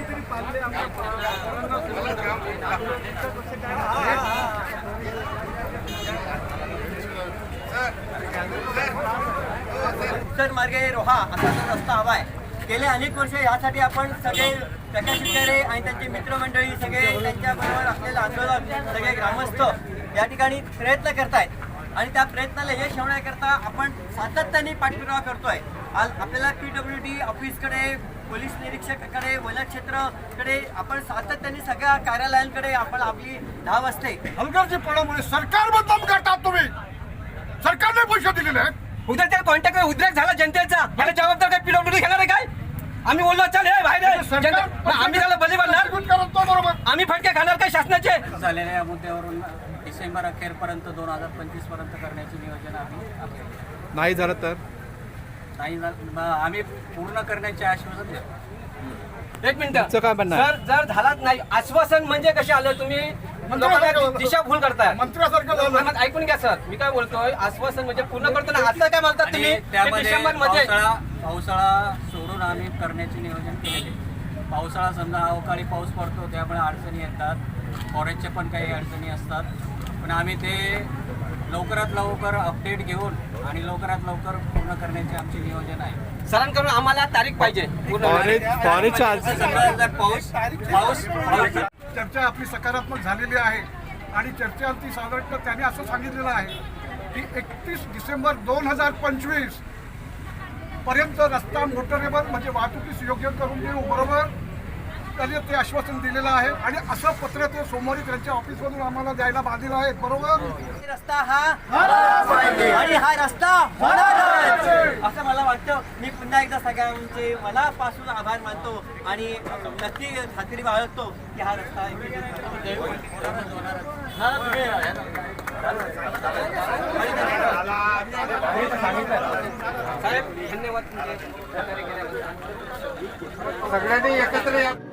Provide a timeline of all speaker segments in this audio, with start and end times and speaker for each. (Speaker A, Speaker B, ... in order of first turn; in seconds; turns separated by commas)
Speaker A: 10.1-34.2, Speaker B: 34.4-36.7, Speaker B: 37.6-38.8, Speaker C: 39.1-42.5, Speaker C: 43.0-46.1, Speaker B: 44.0-46.8, Speaker C: 46.7-48.3, Speaker D: 48.2-53.6, Speaker E: 54.0-54.6, Speaker D: 55.6-58.2, Speaker C: 59.4-70.8, Speaker E: 59.9-60.4, Speaker B: 63.5-64.4, Speaker B: 64.9-66.0, Speaker D: 69.2-74.0, Speaker D: 74.5-77.4, Speaker D: 77.9-79.5, Speaker D: 80.0-80.9, Speaker D: 81.5-86.0, Speaker C: 86.3-88.8, Speaker E: 88.1-89.2, Speaker D: 88.4-91.7, Speaker B: 91.9-96.6, Speaker B: 97.1-99.6, Speaker B: 100.8-104.3, Speaker B: 105.2-110.6, Speaker A: 110.6-122.8, Speaker D: 122.7-124.1, Speaker D: 124.7-125.0, Speaker C: 128.7-129.3, Speaker C: 130.0-132.2, Speaker C: 133.9-134.6